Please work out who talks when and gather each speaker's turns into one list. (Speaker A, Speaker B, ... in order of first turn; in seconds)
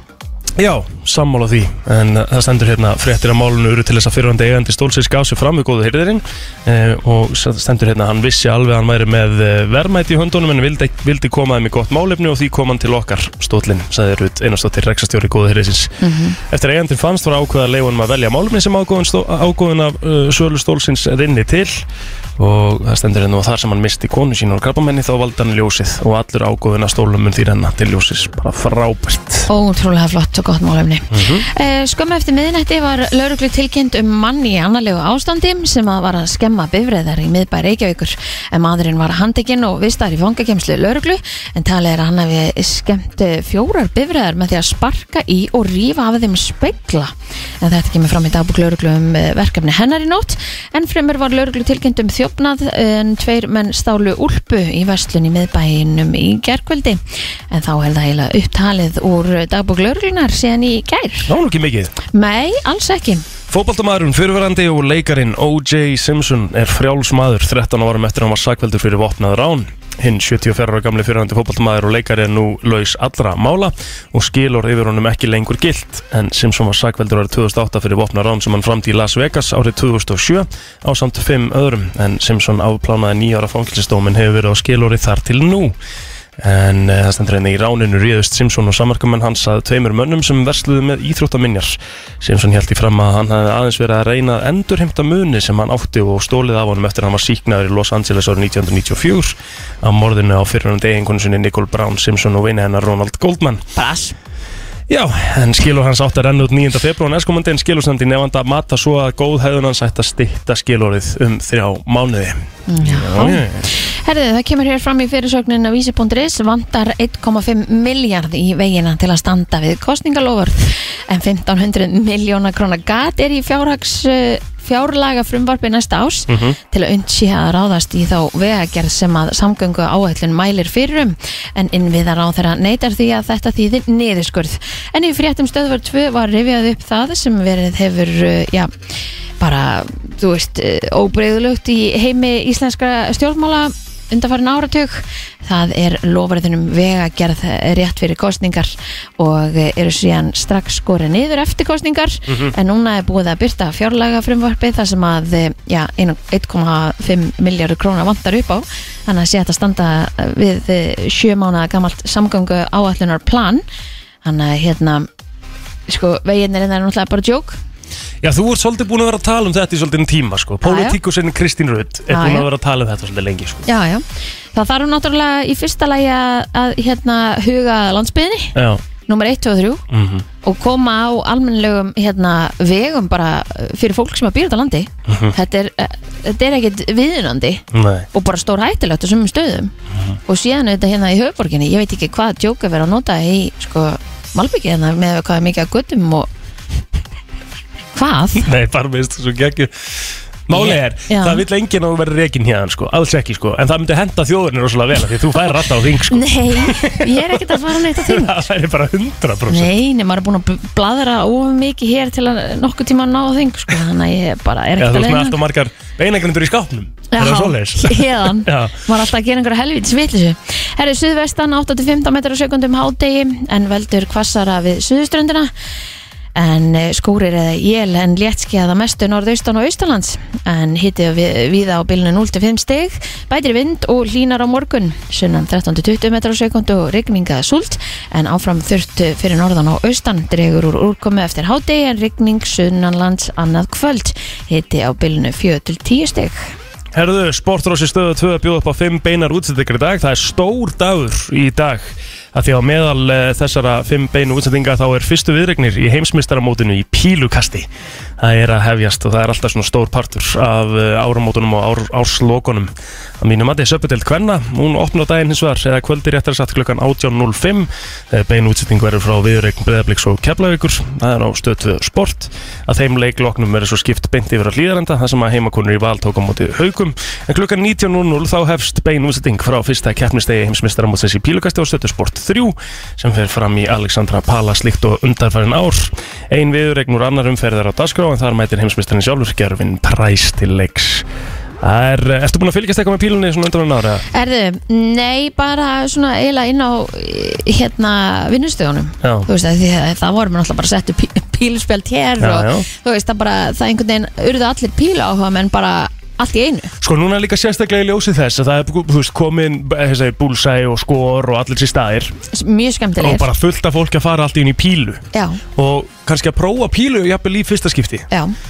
Speaker A: 0.6-21.8, 22.4-29.5, 31.1-31.4, 61.3-61.9, 63.5-85.8, 86.4-103.6, 104.9-113.7, 126.3-126.6, 152.3-152.5, 168.2-173.7, 178.5-178.8, 179.9-180.2, 185.1-185.3, 187.7-188.1, 198.3-199.7, 200.5-209.7, 214.8-218.8, 246.9-257.7, 258.2-291.1, 291.6-294.0, 299.0-299.3, 302.2-302.7, 306.8-312.1, 313.0-315.0, 315.5-318.1
Speaker B: 16.0-16.4, 29.5-61.3, 62.1-63.2, 103.8-104.1, 112.7-138.7, 139.4-163.6, 164.2-165.1, 165.9-167.6, 170.6-171.0, 172.1-172.5, 173.7-178.5, 179.1-179.8, 180.4-189.7, 190.3-196.3, 197.9-198.4, 200.5-201.4, 206.1-208.3, 209.5-215.4, 217.1-225.5, 226.3-246.5, 294.1-306.7, 312.3-313.3, 315.1-315.4